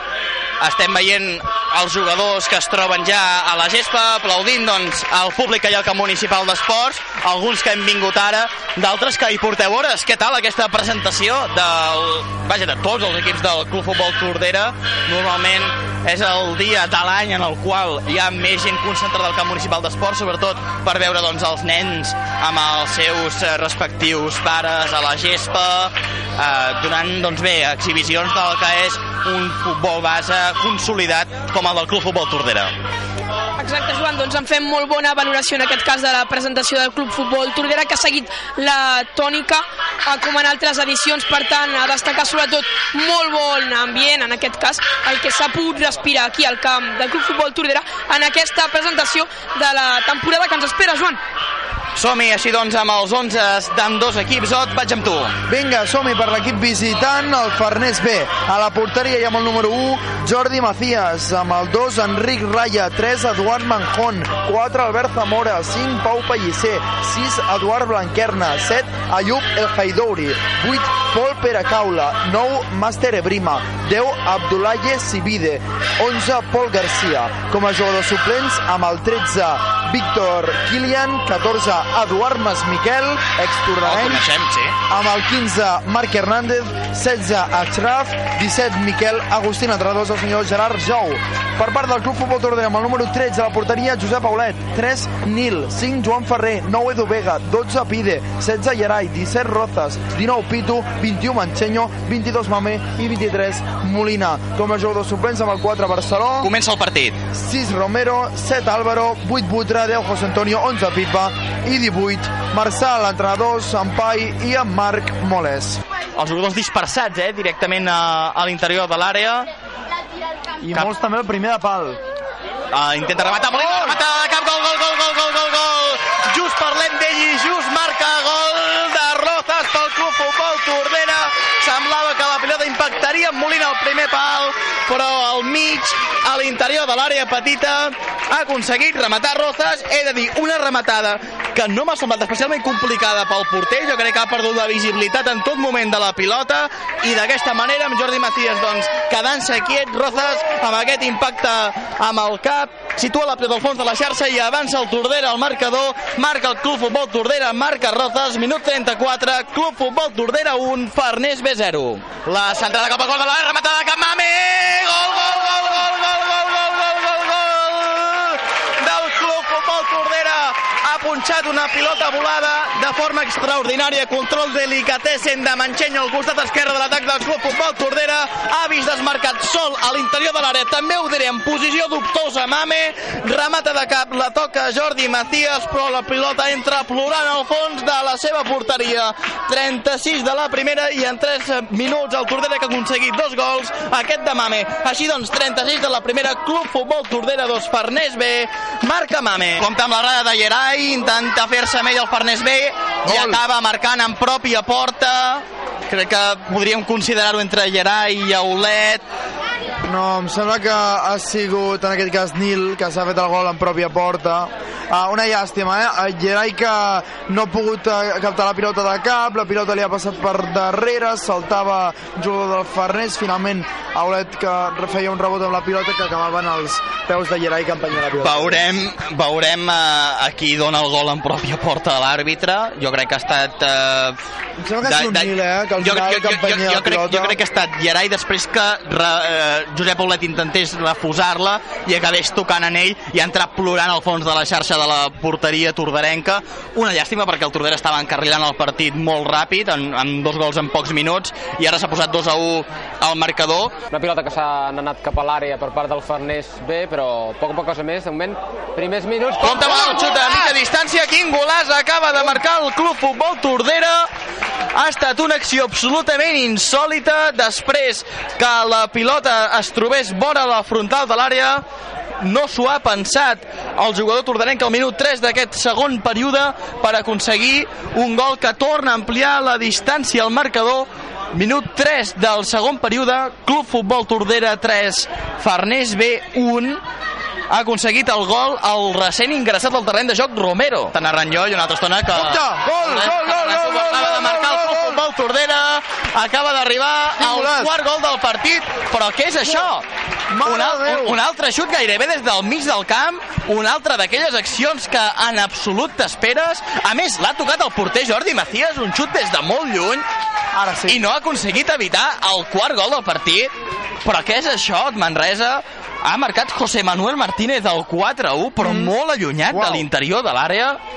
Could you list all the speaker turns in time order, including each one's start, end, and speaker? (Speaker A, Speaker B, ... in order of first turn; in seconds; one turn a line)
Speaker A: 0.6-32.7
Speaker B: 33.6-51.2
Speaker A: 52.0-55.4
Speaker C: 55.5-84.2
Speaker A: 83.8-84.7
Speaker C: 84.9-106.5
Speaker A: 106.4-107.2
Speaker C: 107.3-115.8
Speaker A: 116.2-119.5
Speaker C: 120.6-122.0
Speaker A: 122.7-209.0
Speaker C: 123.7-124.0
Speaker C: 203.1-203.4
Speaker C: 209.9-228.7
Speaker A: 228.2-234.2
Speaker C: 234.6-237.4
Speaker A: 234.8-253.7
Speaker D: 253.9-259.8
Speaker A: 259.4-264.1
Speaker A: 264.7-271.6
Speaker A: 272.2-286.8
Speaker A: 287.5-299.9
Speaker C: 292.1-295.0
Speaker C: 297.2-297.7
Speaker C: 300.3-301.2
Speaker A: 300.4-310.1
Speaker C: 310.5-311.0
Speaker A: 310.9-313.5
Speaker A: 314.0-320.8
Speaker C: 318.6-318.9
Speaker C: 319.5-319.9